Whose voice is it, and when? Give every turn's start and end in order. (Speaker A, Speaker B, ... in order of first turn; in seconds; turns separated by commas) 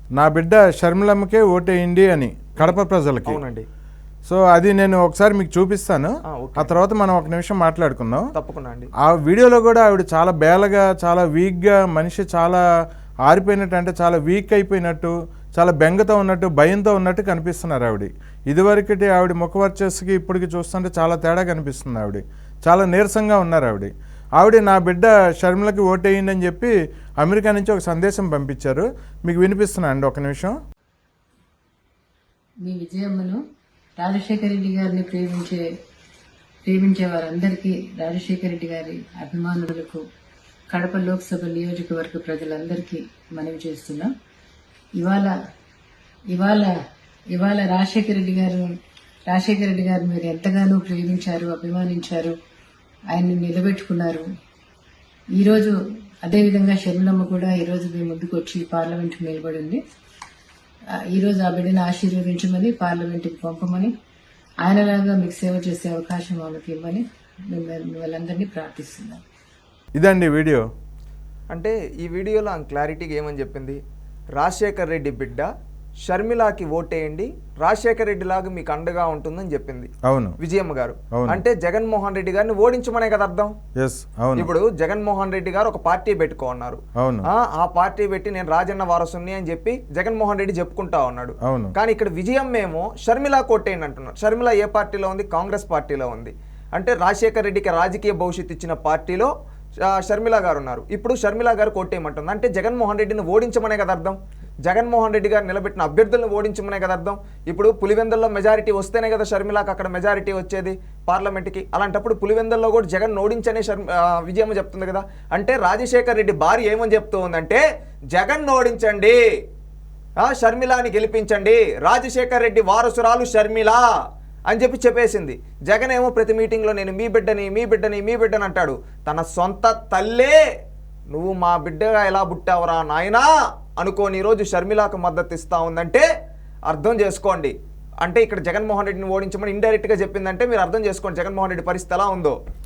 Speaker A: 0.2-3.4, Speaker B: 2.6-3.7, Speaker A: 4.2-8.3, Speaker B: 6.3-6.8, Speaker B: 8.3-8.9, Speaker A: 9.1-12.6, Speaker A: 13.3-30.6, Speaker C: 32.6-33.4, Speaker C: 34.0-35.7, Speaker C: 36.7-40.0, Speaker C: 40.7-44.1, Speaker C: 45.0-45.3, Speaker C: 46.3-46.7, Speaker C: 47.3-48.7, Speaker C: 49.3-52.4, Speaker C: 53.1-54.3, Speaker C: 55.4-59.8, Speaker C: 61.1-63.9, Speaker C: 64.6-69.2, Speaker A: 70.0-70.7, Speaker B: 71.5-73.8, Speaker B: 74.4-75.5, Speaker B: 76.1-83.5, Speaker A: 80.1-80.3, Speaker A: 81.2-81.4, Speaker A: 83.8-84.5, Speaker B: 84.4-99.3, Speaker A: 87.0-87.3, Speaker A: 91.5-91.7, Speaker B: 99.9-119.2, Speaker B: 120.2-123.8, Speaker B: 124.5-130.4, Speaker B: 131.1-133.3, Speaker B: 133.8-136.1, Speaker B: 136.7-142.4